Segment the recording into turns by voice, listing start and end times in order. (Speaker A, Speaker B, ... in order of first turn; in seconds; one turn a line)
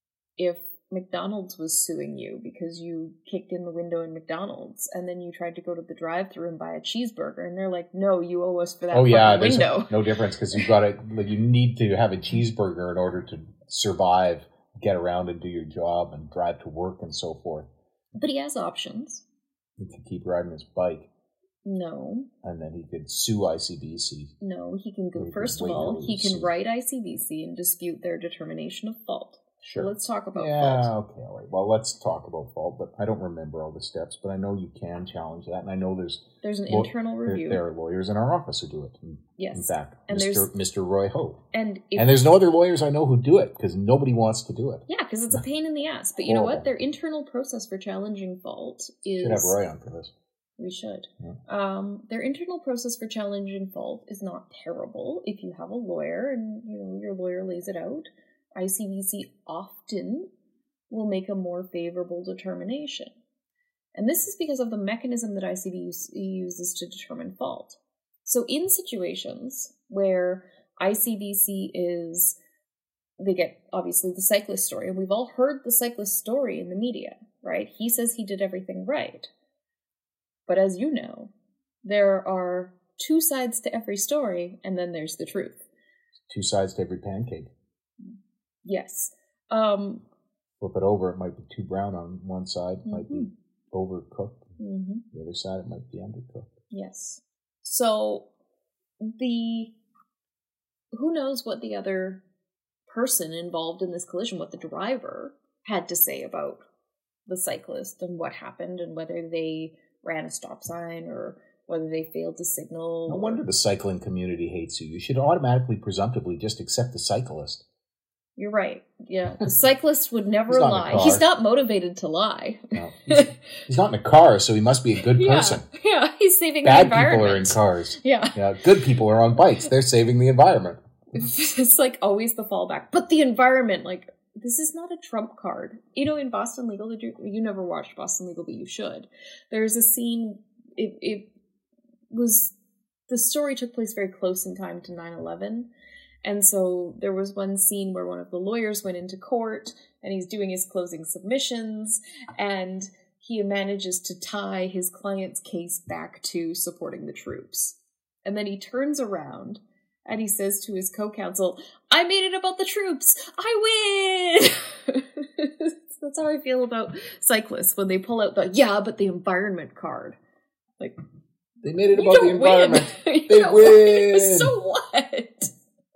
Speaker A: 0.4-10.7
Speaker B: 8.9-17.7
Speaker A: 18.2-19.2
Speaker B: 19.8-21.1
Speaker A: 21.6-22.3
Speaker B: 22.4-24.3
Speaker A: 24.4-30.9
Speaker B: 25.1-26.5
Speaker B: 29.6-41.4
Speaker A: 36.4-37.6
Speaker A: 39.4-40.5
Speaker A: 41.5-42.3
Speaker B: 42.0-44.9
Speaker A: 44.9-49.6
Speaker B: 46.2-46.7
Speaker B: 49.2-50.1
Speaker A: 50.6-60.3
Speaker A: 60.9-63.1
Speaker A: 64.0-72.4
Speaker A: 73.2-79.3
Speaker A: 80.5-81.3
Speaker A: 81.8-85.6
Speaker B: 86.3-87.5
Speaker A: 88.0-90.0
Speaker B: 90.6-94.5
Speaker A: 92.9-93.3
Speaker A: 94.6-95.0
Speaker B: 95.1-96.5
Speaker A: 96.7-98.3
Speaker A: 99.0-99.7
Speaker A: 100.9-102.2
Speaker A: 102.9-106.6
Speaker A: 107.3-113.4
Speaker B: 113.1-117.6
Speaker A: 118.4-123.4
Speaker B: 120.5-121.3
Speaker B: 122.7-125.7
Speaker A: 125.1-128.4
Speaker B: 126.6-130.8
Speaker A: 131.1-141.3
Speaker A: 142.1-142.5
Speaker A: 143.1-145.7
Speaker A: 146.2-170.2
Speaker B: 171.6-174.5
Speaker A: 171.9-175.5